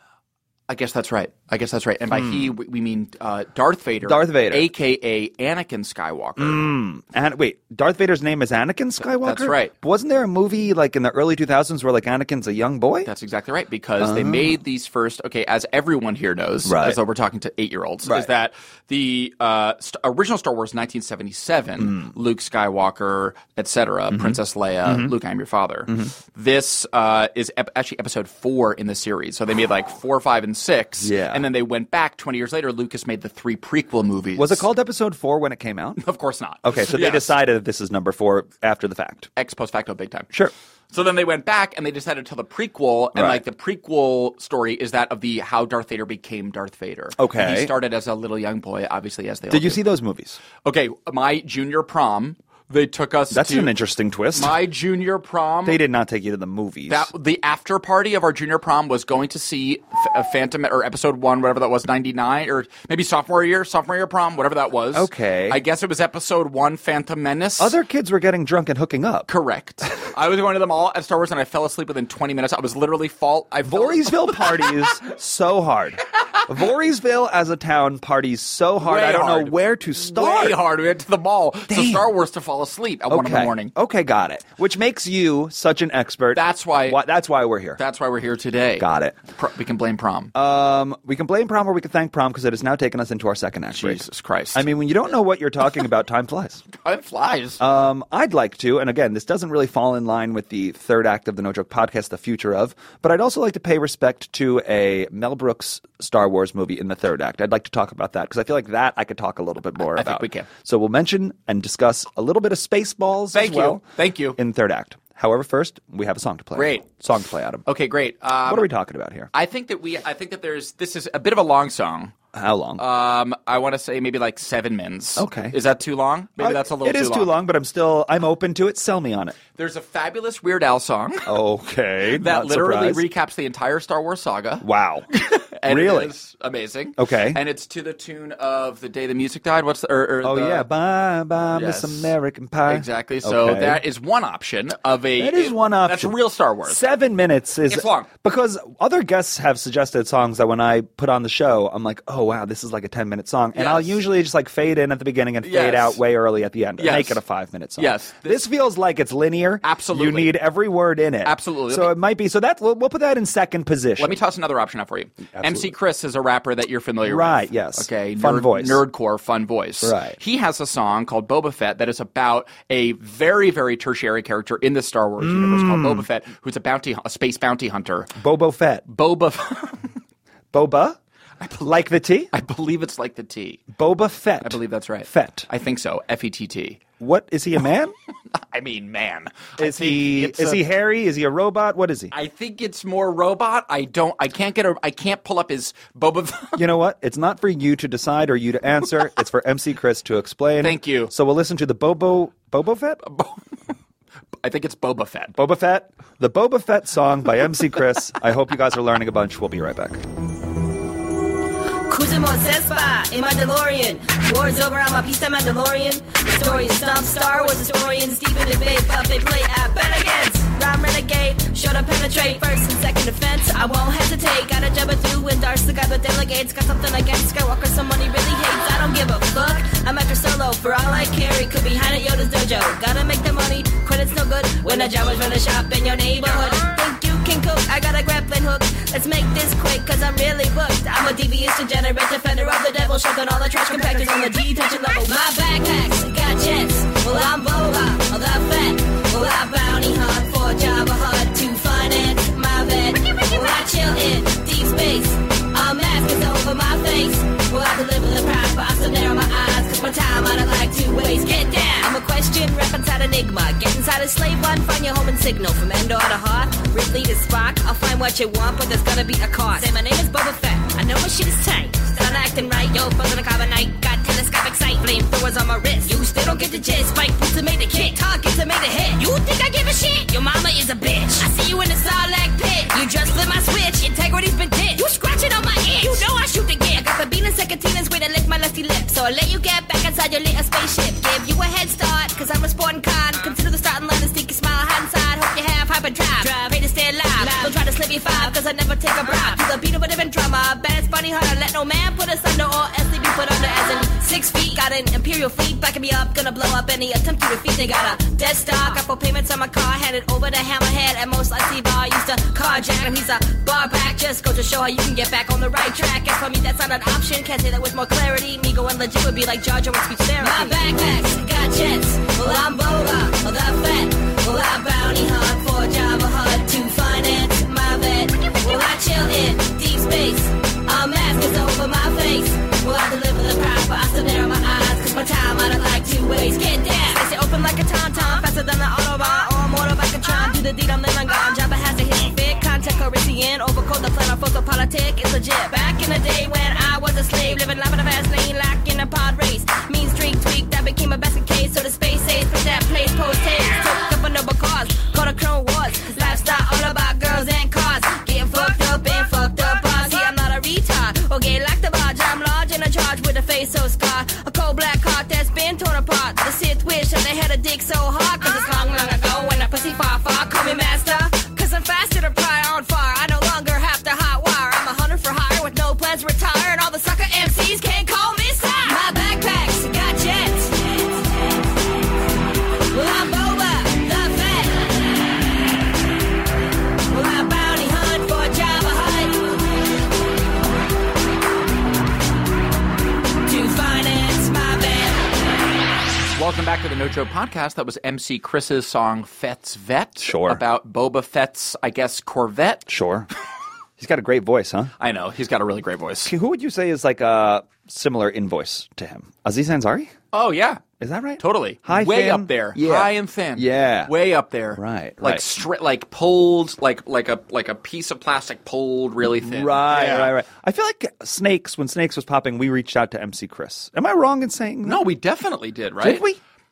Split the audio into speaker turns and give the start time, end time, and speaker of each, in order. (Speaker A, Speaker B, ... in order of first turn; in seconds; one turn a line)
Speaker A: 0.7-6.8
Speaker B: 2.1-2.5
Speaker B: 4.0-4.7
Speaker B: 6.4-13.1
Speaker A: 9.2-9.7
Speaker A: 13.1-34.6
Speaker B: 14.0-14.6
Speaker B: 16.6-17.0
Speaker B: 24.1-25.1
Speaker B: 31.0-31.4
Speaker B: 34.4-36.0
Speaker A: 36.0-37.3
Speaker B: 36.6-39.3
Speaker A: 39.4-40.3
Speaker A: 40.9-49.8
Speaker B: 43.1-43.4
Speaker B: 47.2-47.7
Speaker B: 49.5-50.4
Speaker A: 50.6-53.8
Speaker B: 53.3-54.6
Speaker A: 54.3-55.8
Speaker B: 55.7-57.1
Speaker A: 56.9-67.8
Speaker B: 64.9-65.6
Speaker B: 67.6-69.3
Speaker A: 69.3-74.9
Speaker B: 73.7-80.6
Speaker A: 78.8-83.7
Speaker B: 81.7-82.1
Speaker B: 83.1-87.8
Speaker A: 86.3-87.0
Speaker A: 87.8-90.3
Speaker B: 88.8-89.2
Speaker B: 90.3-94.0
Speaker A: 93.7-94.7
Speaker B: 94.5-96.7
Speaker A: 96.8-97.6
Speaker B: 97.6-113.8
Speaker A: 109.9-110.5
Speaker A: 113.3-114.4
Speaker B: 114.4-117.7
Speaker A: 116.5-116.9
Speaker A: 117.7-118.7
Speaker B: 118.5-119.3
Speaker A: 119.3-122.2
Speaker B: 122.3-122.8
Speaker A: 122.8-127.3
Speaker B: 125.2-125.6
Speaker B: 126.4-129.4
Speaker A: 129.6-131.3
Speaker B: 131.3-133.1
Speaker A: 132.2-140.7
Speaker B: 134.6-135.1
Speaker B: 135.7-136.1
Speaker B: 137.0-137.4
Speaker B: 140.2-143.8
Speaker A: 141.5-142.1
Speaker A: 142.7-146.8
Speaker B: 145.2-164.2
Speaker A: 147.7-148.1
Speaker A: 153.6-154.0
Speaker A: 155.4-156.0
Speaker A: 156.8-157.2
Speaker A: 157.8-158.4
Speaker A: 159.6-160.4
Speaker A: 161.2-161.9
Speaker A: 164.0-178.1
Speaker B: 165.3-165.7
Speaker B: 167.0-168.8
Speaker B: 169.8-170.2
Speaker B: 175.2-176.1
Speaker B: 178.2-178.9
Speaker A: 178.9-180.0
Speaker B: 180.5-181.0
Speaker B: 181.6-182.3
Speaker A: 182.3-183.7
Speaker B: 183.7-185.5
Speaker A: 184.4-186.8
Speaker B: 187.0-187.9
Speaker A: 188.3-190.6
Speaker B: 189.6-192.1
Speaker A: 192.1-196.6
Speaker B: 196.6-203.0
Speaker A: 200.6-201.1
Speaker A: 203.1-203.4
Speaker A: 204.4-205.3
Speaker B: 205.3-210.0
Speaker C: 211.9-380.9
Speaker C: 382.7-384.8
Speaker C: 386.9-389.3
Speaker C: 393.2-395.0
Speaker A: 396.1-402.7
Speaker B: 400.0-400.4
Speaker B: 402.7-403.1
Speaker B: 403.8-404.7
Speaker A: 404.8-406.1
Speaker B: 406.1-409.9
Speaker A: 410.1-410.6
Speaker B: 410.8-413.9
Speaker A: 411.2-420.1
Speaker B: 414.6-415.2
Speaker B: 419.2-424.8
Speaker A: 424.6-426.1
Speaker B: 425.8-426.2